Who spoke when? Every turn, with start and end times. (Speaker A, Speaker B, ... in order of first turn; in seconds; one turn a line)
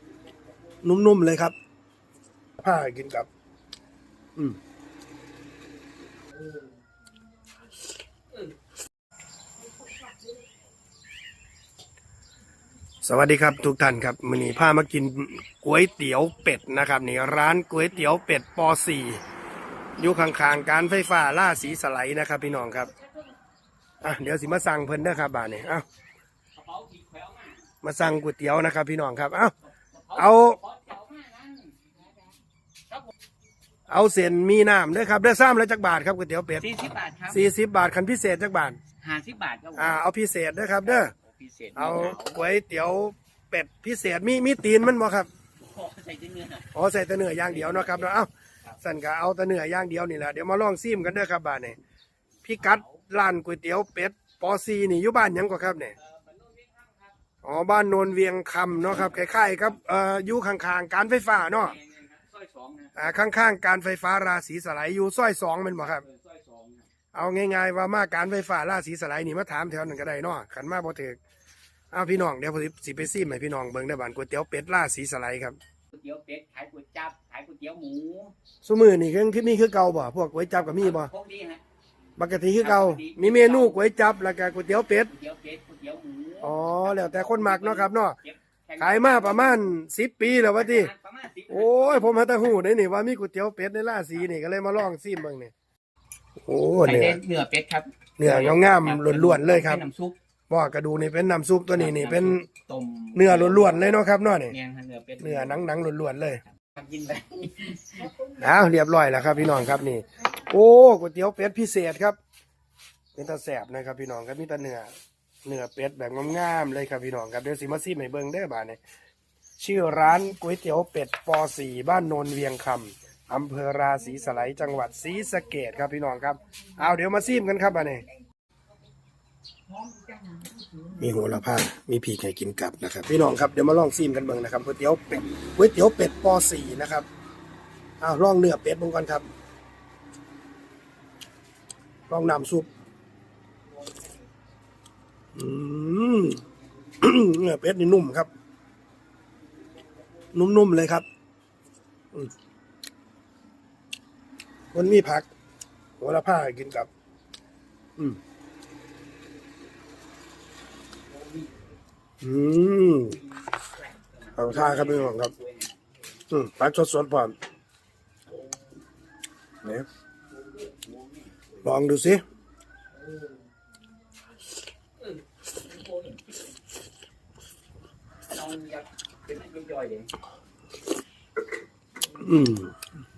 Speaker A: 0.8-1.5
Speaker A: 2.6-3.3
Speaker A: 13.0-19.2
Speaker A: 20.0-22.9
Speaker A: 24.0-25.9
Speaker B: 26.6-27.7
Speaker A: 27.8-29.5
Speaker B: 29.8-31.9
Speaker A: 30.1-30.6
Speaker A: 33.9-36.7
Speaker B: 36.6-37.5
Speaker A: 37.3-38.8
Speaker B: 39.0-40.0
Speaker A: 39.8-41.1
Speaker B: 40.8-42.4
Speaker A: 41.8-45.3
Speaker B: 45.6-46.7
Speaker A: 46.7-48.3
Speaker B: 47.4-48.1
Speaker A: 48.8-51.8
Speaker A: 52.4-56.0
Speaker B: 52.6-53.0
Speaker B: 56.0-57.2
Speaker A: 57.4-61.8
Speaker B: 58.9-59.8
Speaker B: 61.5-63.0
Speaker A: 63.0-66.0
Speaker B: 65.7-66.9
Speaker A: 67.1-71.2
Speaker A: 71.9-75.6
Speaker B: 75.9-78.3
Speaker A: 78.6-81.1
Speaker B: 80.7-81.6
Speaker A: 82.2-85.1
Speaker B: 82.6-83.9
Speaker B: 85.0-89.7
Speaker A: 86.4-88.2
Speaker A: 88.8-90.9
Speaker B: 90.3-92.5
Speaker A: 91.5-95.5
Speaker A: 96.4-97.2
Speaker B: 96.8-100.2
Speaker A: 98.2-99.8
Speaker A: 100.5-102.5
Speaker B: 101.7-103.8
Speaker A: 103.2-104.5
Speaker B: 104.5-105.7
Speaker A: 105.2-106.4
Speaker B: 106.7-108.1
Speaker A: 108.4-112.2
Speaker A: 113.2-114.9
Speaker A: 115.5-118.8
Speaker A: 119.6-128.0
Speaker B: 129.8-130.5
Speaker A: 130.9-137.1
Speaker A: 138.0-139.3
Speaker A: 142.1-142.7
Speaker A: 145.3-146.4
Speaker A: 147.0-148.3
Speaker A: 150.3-151.1
Speaker A: 154.7-155.3
Speaker A: 156.0-156.9
Speaker B: 161.1-161.7
Speaker A: 162.2-163.2
Speaker B: 163.0-165.8
Speaker A: 164.3-165.3
Speaker A: 166.3-167.3
Speaker B: 170.3-171.6
Speaker A: 171.6-172.2
Speaker B: 175.6-176.4
Speaker B: 178.3-180.1
Speaker A: 182.2-182.8